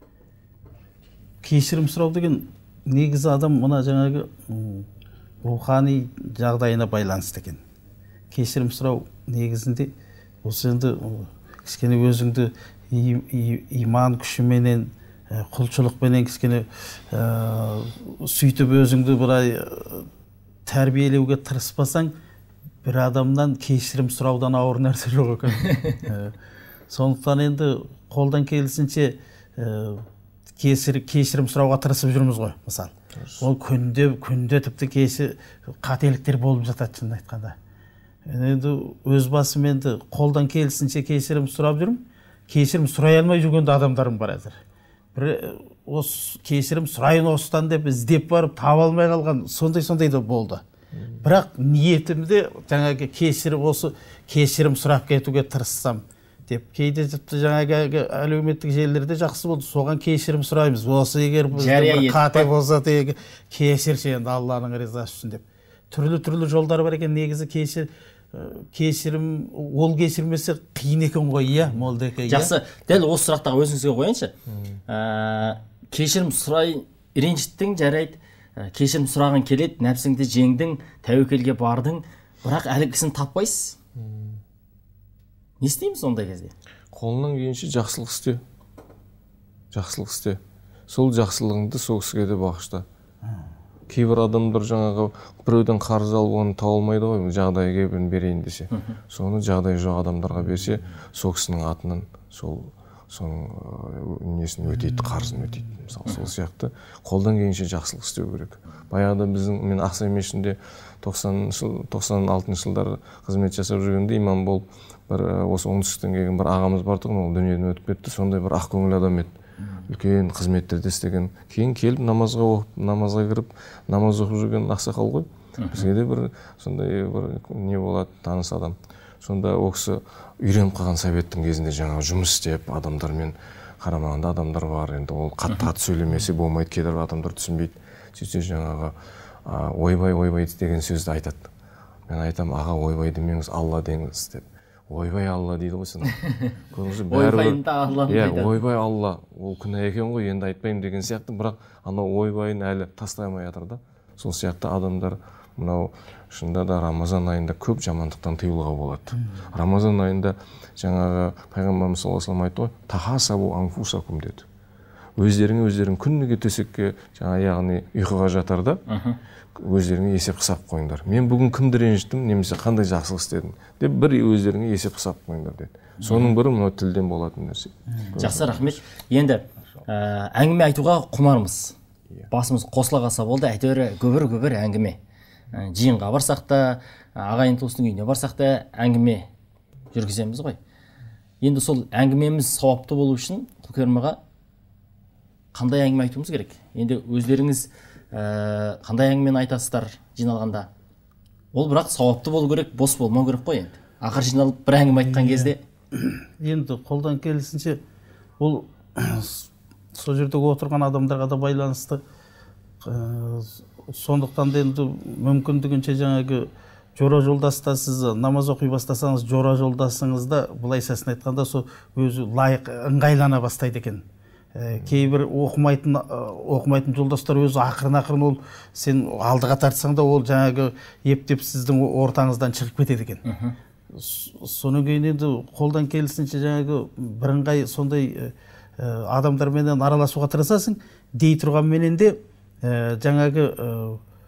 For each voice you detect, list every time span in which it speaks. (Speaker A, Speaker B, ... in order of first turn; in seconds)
Speaker A: 1.4-4.9, 5.4-7.6, 8.3-9.9, 10.4-20.1, 20.7-22.1, 22.8-26.3, 26.9-30.1, 30.6-37.6, 38.3-44.6, 45.1-50.6, 51.2-72.5, 104.9-105.6, 204.9-207.8, 208.4-212.0, 212.8-224.0, 224.6-233.2, 233.9-244.0
Speaker B: 33.2-33.5, 74.5-74.8, 84.0-84.4, 86.9-88.4, 89.7-92.9, 93.9-119.3, 119.8-141.5, 142.1-164.5, 165.2-168.8, 169.6-178.8
Speaker C: 61.5-62.5, 72.3-74.3, 74.9-83.8, 85.6-86.5, 125.6-125.9, 146.1-146.5, 147.1-148.6, 168.9-169.2, 176.0-176.3, 178.2-181.8, 182.3-185.0, 185.5-189.3, 189.9-190.6, 191.4-194.2, 195.5-200.7, 201.5-205.6, 233.3-233.6